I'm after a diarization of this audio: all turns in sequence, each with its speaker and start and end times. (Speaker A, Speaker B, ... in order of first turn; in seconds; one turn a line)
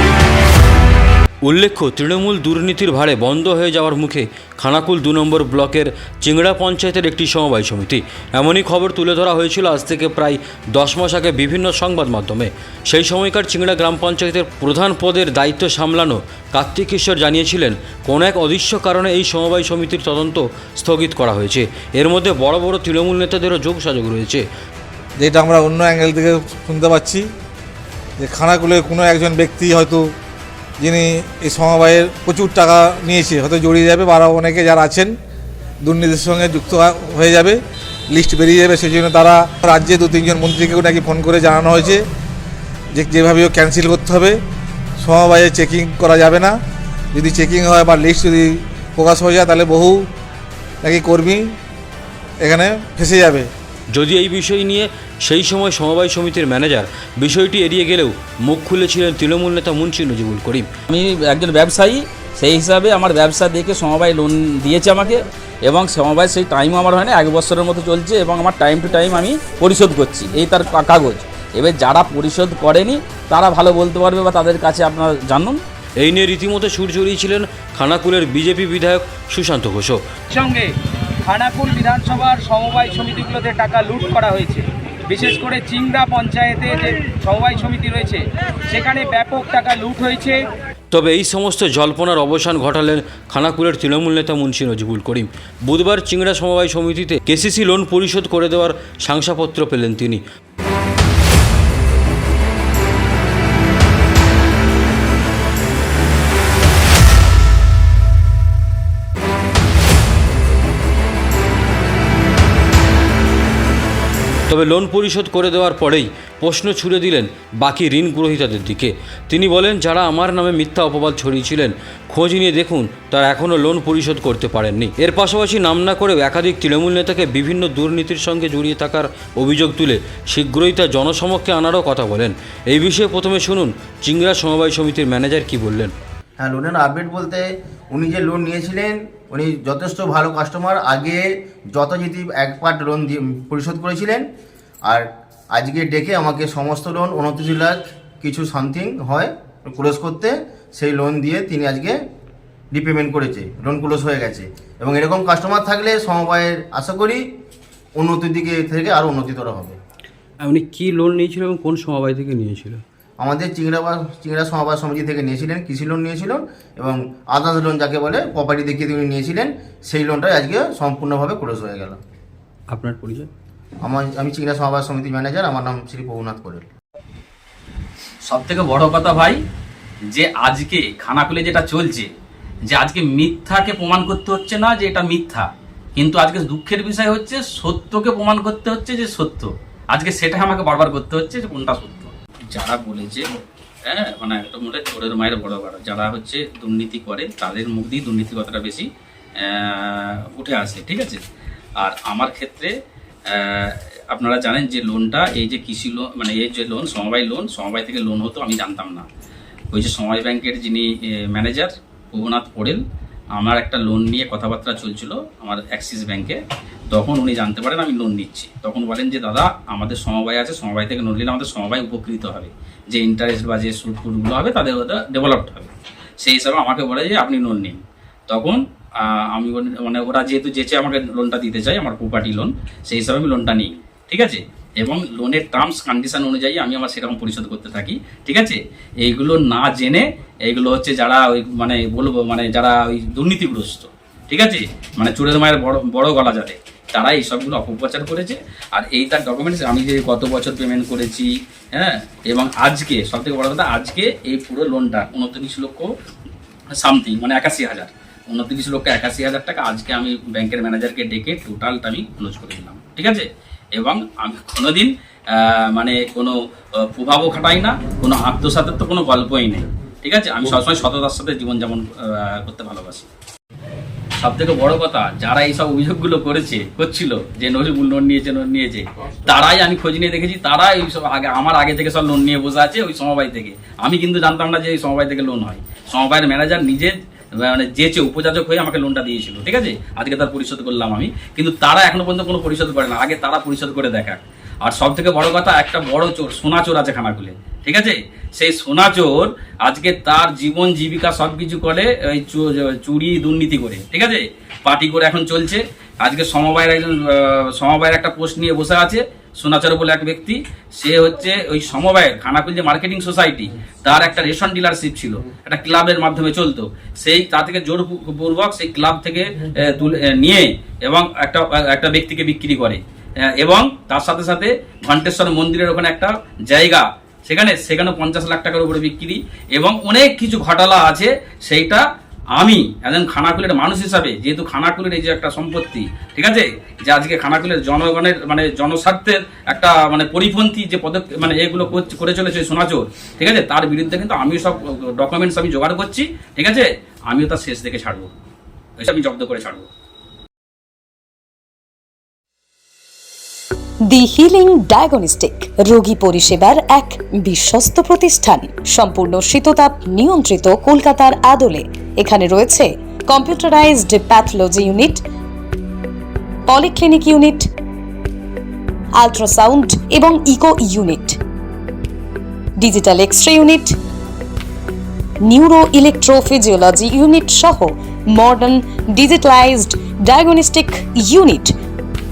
Speaker A: 1.4-24.4
Speaker B: 25.2-27.3
Speaker B: 28.2-30.1
Speaker B: 30.8-35.1
Speaker B: 35.8-42.0
Speaker B: 42.9-44.4
Speaker B: 45.0-46.6
Speaker B: 47.1-50.1
Speaker B: 50.8-51.5
Speaker B: 52.4-53.5
Speaker A: 53.9-60.7
Speaker C: 60.9-75.6
Speaker A: 76.0-80.0
Speaker D: 80.4-80.7
Speaker D: 81.3-90.5
Speaker A: 90.9-100.2
Speaker A: 114.5-135.9
Speaker E: 136.4-144.2
Speaker E: 144.8-152.0
Speaker E: 152.7-157.2
Speaker E: 158.0-159.8
Speaker A: 160.4-162.8
Speaker E: 163.2-172.0
Speaker A: 172.7-173.3
Speaker E: 173.8-176.7
Speaker C: 178.2-179.4
Speaker C: 180.1-182.1
Speaker C: 182.7-193.3
Speaker C: 193.9-198.9
Speaker C: 199.4-201.2
Speaker C: 201.8-202.7
Speaker C: 203.3-209.1
Speaker C: 209.7-212.8
Speaker C: 213.3-216.4
Speaker C: 216.9-255.9
Speaker C: 256.8-273.1
Speaker C: 274.2-322.8
Speaker C: 323.4-331.8
Speaker C: 332.4-348.1
Speaker C: 348.8-349.7
Speaker F: 353.9-365.0
Speaker F: 366.5-367.5
Speaker F: 369.0-371.2
Speaker F: 372.6-373.8
Speaker F: 375.2-381.5